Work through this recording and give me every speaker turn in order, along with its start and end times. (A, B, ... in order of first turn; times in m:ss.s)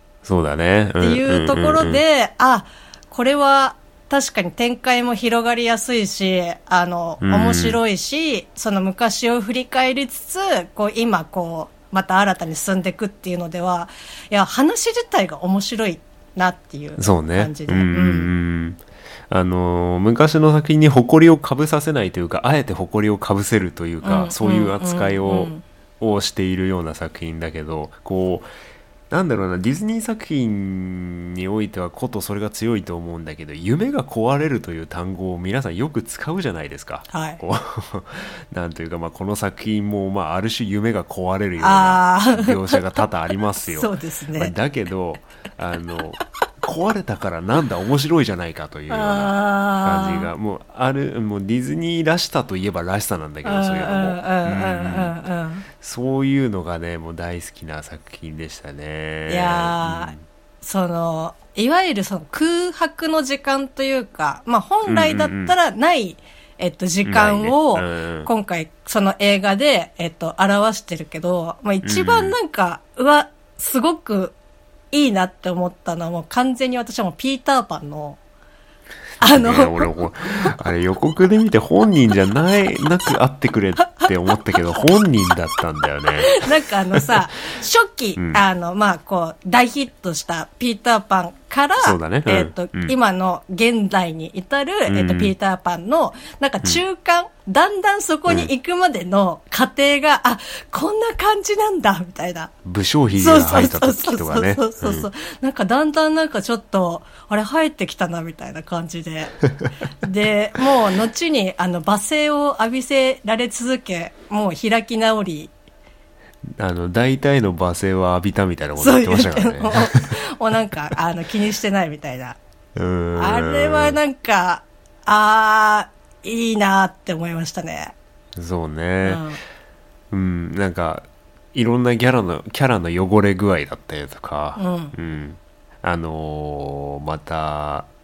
0:00.2-0:02.0 A
0:01.0-0:18.3 B
0:07.2-0:07.8 A
0:17.0-0:28.5 A
0:24.0-0:25.6 B
0:29.1-0:55.2 A
0:37.1-0:37.4 B
0:41.6-0:43.0 B
0:43.6-0:44.5 B
0:48.9-0:50.3 B
0:53.4-0:55.7 B
0:55.8-1:00.2 A
0:59.3-1:14.4 B
1:04.9-1:05.6 A
1:07.0-1:08.3 A
1:11.8-1:12.4 A
1:14.9-1:18.2 B
1:19.2-1:27.2 A
1:19.2-1:19.9 B
1:26.2-1:42.5 B
1:31.8-1:33.0 A
1:34.9-1:35.3 A
1:42.6-1:45.1 A
1:43.2-1:49.4 B
1:50.0-1:55.5 B
1:56.6-2:00.2 A
1:58.8-2:02.4 B
2:02.8-2:04.0 A
2:03.2-2:07.9 B
2:08.4-2:09.2 A
2:09.0-2:09.4 B
2:10.1-2:17.9 A
2:14.6-2:14.9 B